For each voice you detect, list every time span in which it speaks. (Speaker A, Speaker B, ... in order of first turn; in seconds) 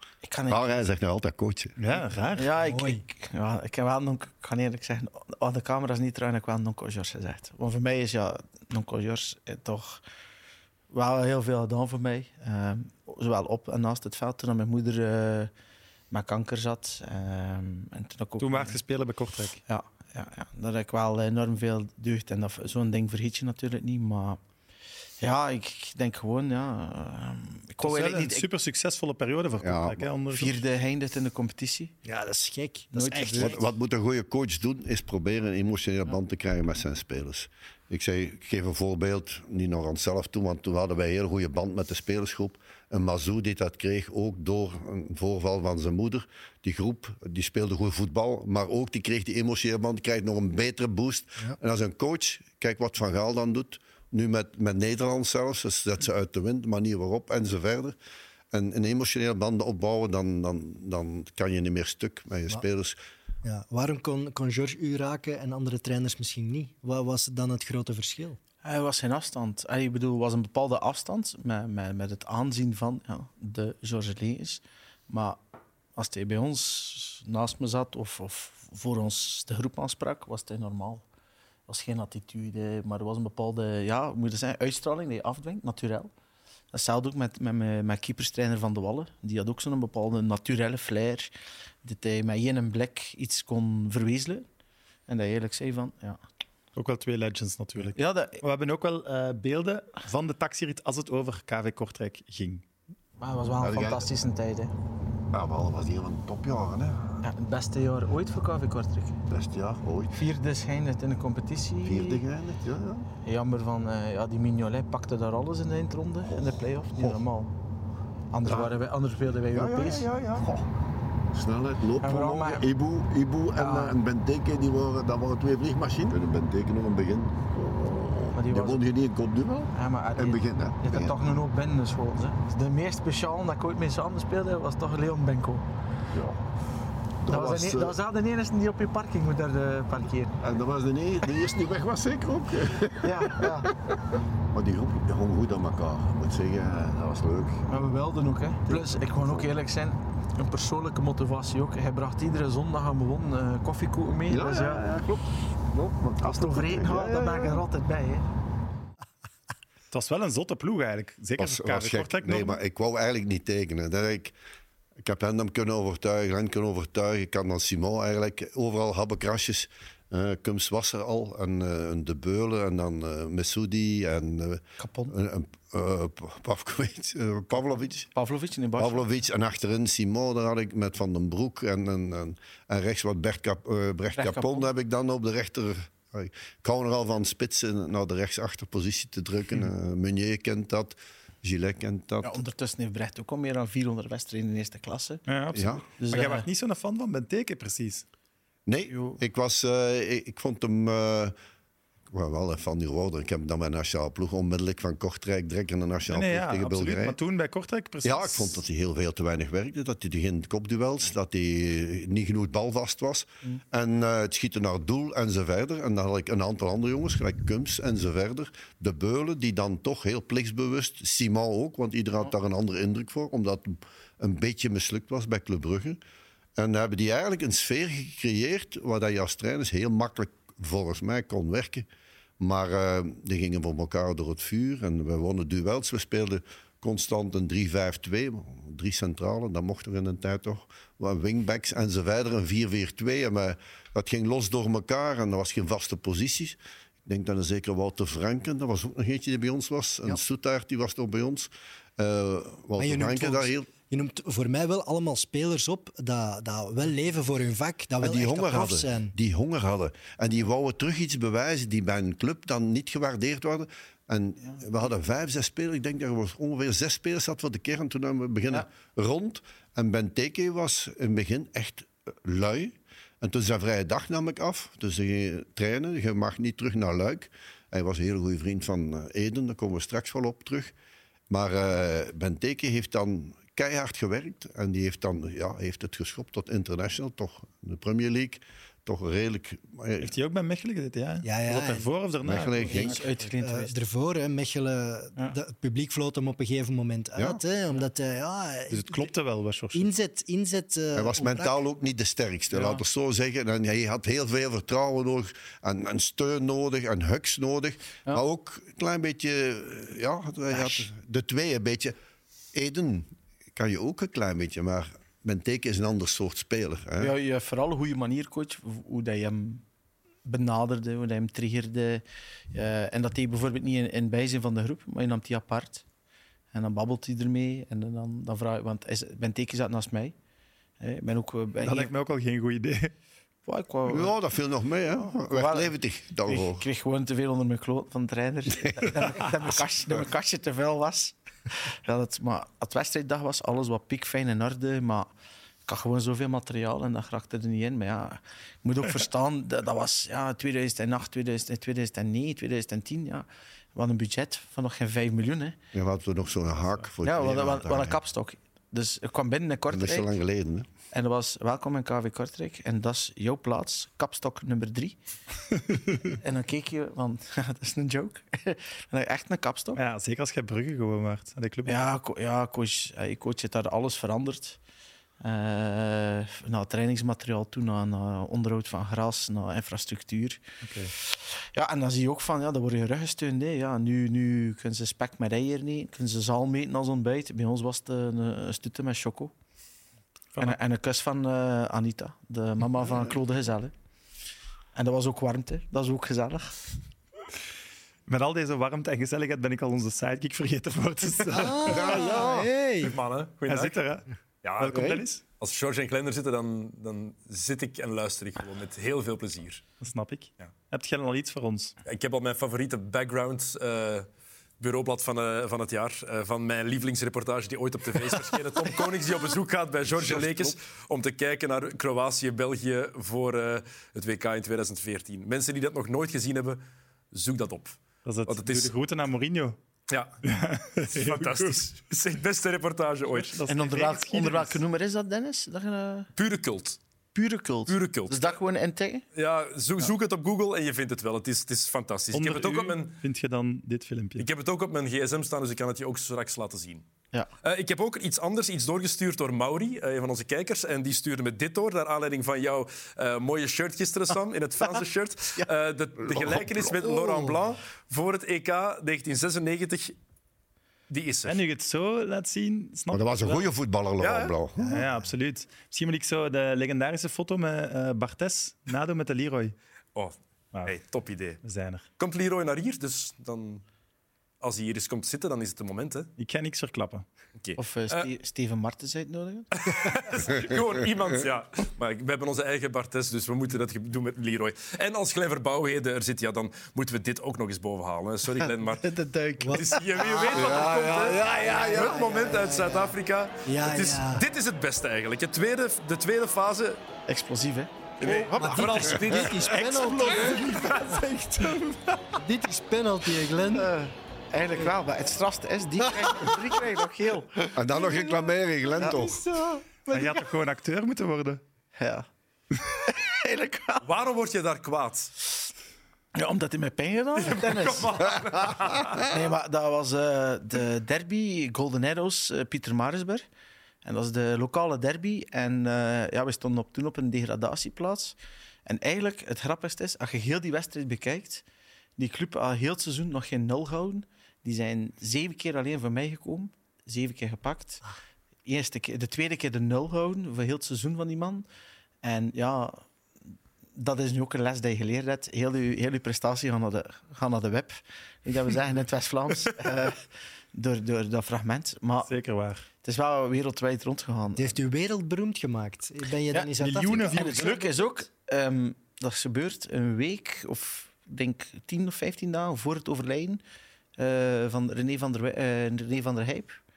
Speaker A: 0.2-0.8, 2.3-10.0, 10.9-15.5, 16.1-18.8, 19.7-24.4, 25.2-28.4, 30.3-31.9, 32.9-33.6, 68.6-75.4, 76.0-81.0, 81.7-86.1, 86.7-91.3, 91.8-94.5, 95.1-96.2, 97.9-98.4, 103.2-104.7, 107.2-109.2, 110.2-112.2, 113.2-117.5, 118.3-120.1, 122.0-122.7, 123.6-124.0, 128.3-128.8, 129.7-135.7, 137.3-140.4, 143.0-143.7, 147.7-154.9, 156.2-158.3, 174.8-175.2, 178.1-179.0, 184.2-184.7, 192.2-195.2, 196.0-196.4, 198.9-199.2, 292.6-293.7, 302.5-302.8, 310.5-310.9, 317.0-319.6, 320.2-325.8, 326.5-330.1, 330.8-331.9, 333.4-334.1, 335.1-335.7, 336.2-345.1, 345.7-355.6, 357.0-360.1, 360.9-365.0, 366.0-369.8, 371.6-374.6, 375.2-380.4, 380.9-389.3, 390.4-393.7, 394.7-396.6, 433.5-436.1, 437.1-439.0, 477.6-479.7, 488.4-490.6, 497.1-498.9, 503.4-508.1, 508.8-510.2, 511.8-512.1, 512.9-513.9, 516.1-523.2, 523.8-528.1, 528.6-531.4, 532.0-537.8, 538.4-541.4, 542.0-542.9, 543.8-552.1, 552.8-554.5, 556.3-563.4, 564.0-566.6
Speaker B: 0.5-1.8, 29.6-30.1, 33.3-58.0, 58.5-63.0, 103.6-104.1, 105.3-107.2, 109.3-110.2, 111.8-113.1, 116.9-117.2, 118.4-118.7, 119.5-120.7, 121.3-131.2, 136.1-136.4, 137.2-138.0, 140.4-143.6, 144.5-147.7, 148.7-149.5, 154.3-157.6, 161.4-164.3, 165.0-178.1, 178.8-192.4, 195.5-195.8, 198.7-201.3, 202.1-207.2, 208.0-226.0, 226.6-231.9, 232.4-253.7, 258.0-280.7, 281.3-290.1, 292.2-293.0, 297.1-297.4, 300.9-311.9, 312.5-317.1, 333.9-336.6, 355.7-358.0, 359.7-360.7, 401.6-402.5, 404.7-405.0, 419.8-420.6, 456.0-456.9, 462.9-464.8, 490.3-491.2, 507.5-509.2
Speaker C: 1.8-2.5, 18.4-19.6, 27.8-30.6, 96.8-102.6, 159.9-162.6, 195.3-198.0, 206.1-208.6, 290.0-292.9, 298.7-299.9, 331.6-332.9, 369.8-371.8, 380.6-380.9, 398.1-402.1, 403.5-404.1, 404.6-405.2, 409.8-411.7, 428.0-429.6, 430.2-431.6, 433.1-434.6, 442.1-444.3, 461.2-463.4, 464.6-469.5, 471.4-471.9, 476.2-477.1, 499.4-502.0, 509.9-511.4, 552.0-552.7, 556.6-557.6
Speaker D: 2.6-3.0, 32.0-33.6, 63.4-68.4, 252.8-259.1, 291.2-291.9, 292.7-299.1, 299.7-301.5, 401.3-402.9, 457.0-457.3, 489.4-492.9, 493.5-494.2, 498.3-500.6, 502.2-503.7, 505.8-506.6, 554.4-557.5
Speaker E: 402.8-403.9, 404.4-409.7, 411.8-414.1, 414.6-426.6, 427.1-428.7, 430.8-433.4, 436.1-436.8, 437.7-438.4, 439.1-442.9, 444.2-446.8, 447.4-459.9, 460.9-461.4, 464.0-464.3, 469.9-471.4, 472.0-473.6, 474.4-476.1, 477.4-478.1, 479.5-488.9, 489.5-496.8, 498.0-501.1, 513.8-515.1, 517.2-519.1